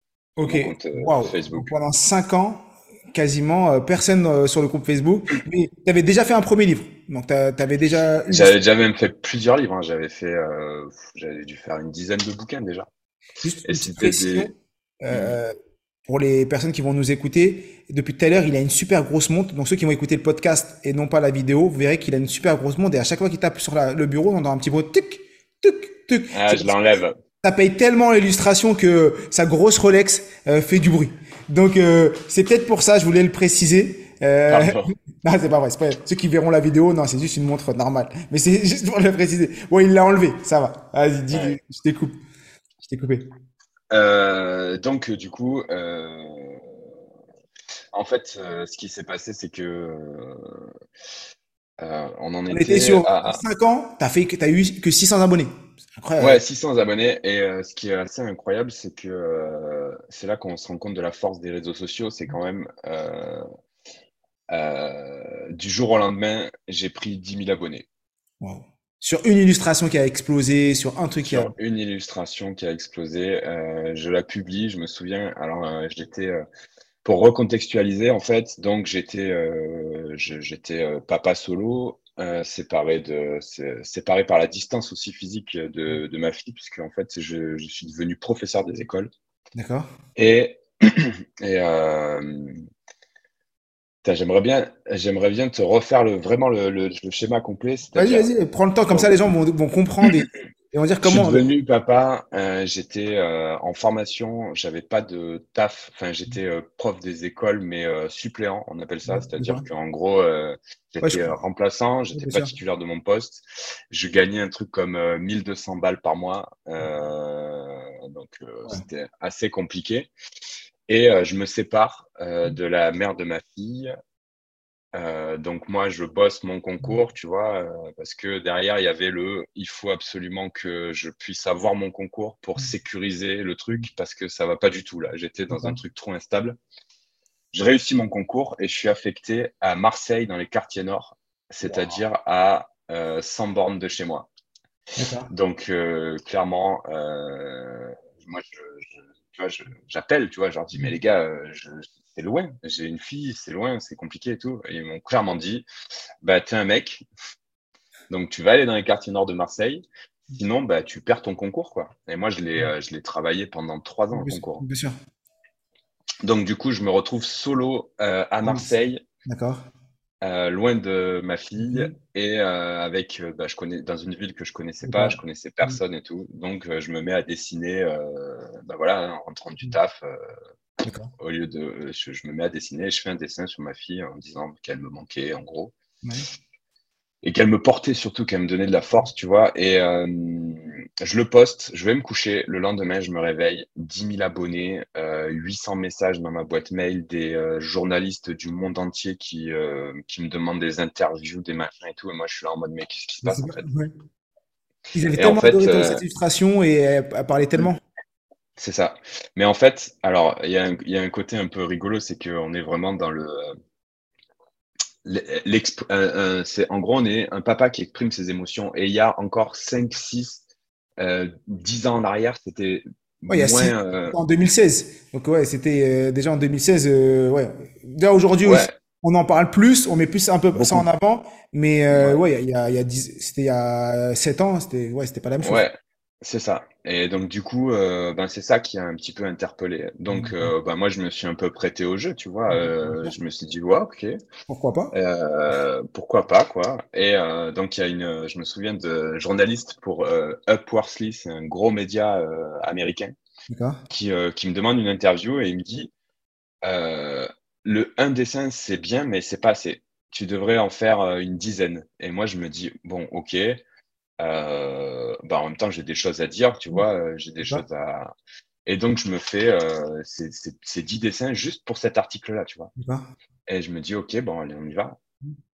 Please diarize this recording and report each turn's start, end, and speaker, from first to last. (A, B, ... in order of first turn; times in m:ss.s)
0:00.4-0:08.6 A
0:00.4-0:01.7 B
0:08.3-0:12.9 B
0:13.4-0:15.5 A
0:13.6-0:14.5 B
0:15.1-0:15.4 B
0:16.1-0:42.2 A
0:26.3-0:27.2 B
0:34.5-0:34.9 B
0:41.3-0:41.6 B
0:42.8-0:43.3 A
0:43.9-0:46.7 B
0:47.9-0:50.7 B
0:51.8-0:53.4 B
0:52.5-0:56.4 A
0:56.2-1:03.4 B
1:04.5-1:07.9 B
1:08.4-1:11.5 A
1:11.2-1:16.4 B
1:17.0-1:29.1 B
1:29.6-1:29.9 A
1:30.2-1:32.6 B
1:34.0-1:38.3 B
1:37.9-1:41.4 A
1:38.9-1:39.3 B
1:41.0-2:00.1 B
1:49.1-1:49.6 A
1:51.0-1:51.3 A
1:52.1-1:52.5 A
2:00.9-2:03.9 B
2:04.9-2:16.6 B
2:15.5-2:15.8 A
2:17.5-2:24.3 B
2:25.0-2:25.3 A
2:25.3-2:35.6 B
2:30.7-2:31.0 A
2:36.2-2:37.0 B
2:38.1-2:44.6 B
2:44.1-2:44.9 A
2:46.2-2:49.0 B
2:48.4-2:48.7 A
2:49.2-2:49.6 A
2:50.2-3:00.2 B
2:51.6-2:51.9 A
2:54.8-2:55.8 A
3:00.8-3:01.1 A
3:01.2-3:05.7 B
3:07.2-3:23.7 B
3:23.2-3:23.9 A
3:24.9-3:27.8 A
3:25.2-3:26.0 B
3:28.6-3:33.5 B
3:35.0-3:40.4 B
3:41.0-3:44.2 B
3:43.3-3:55.6 A
3:48.4-3:48.8 B
3:50.5-3:50.9 B
3:51.9-3:52.2 B
3:55.4-4:04.1 B
4:00.1-4:00.5 A
4:02.5-4:03.1 A
4:04.5-4:04.9 A
4:04.9-4:13.1 B
4:13.5-4:13.8 A
4:13.9-4:15.9 B
4:16.6-4:23.6 B
4:24.2-4:28.1 B
4:28.7-4:32.7 B
4:32.8-4:33.0 A
4:33.5-4:35.0 B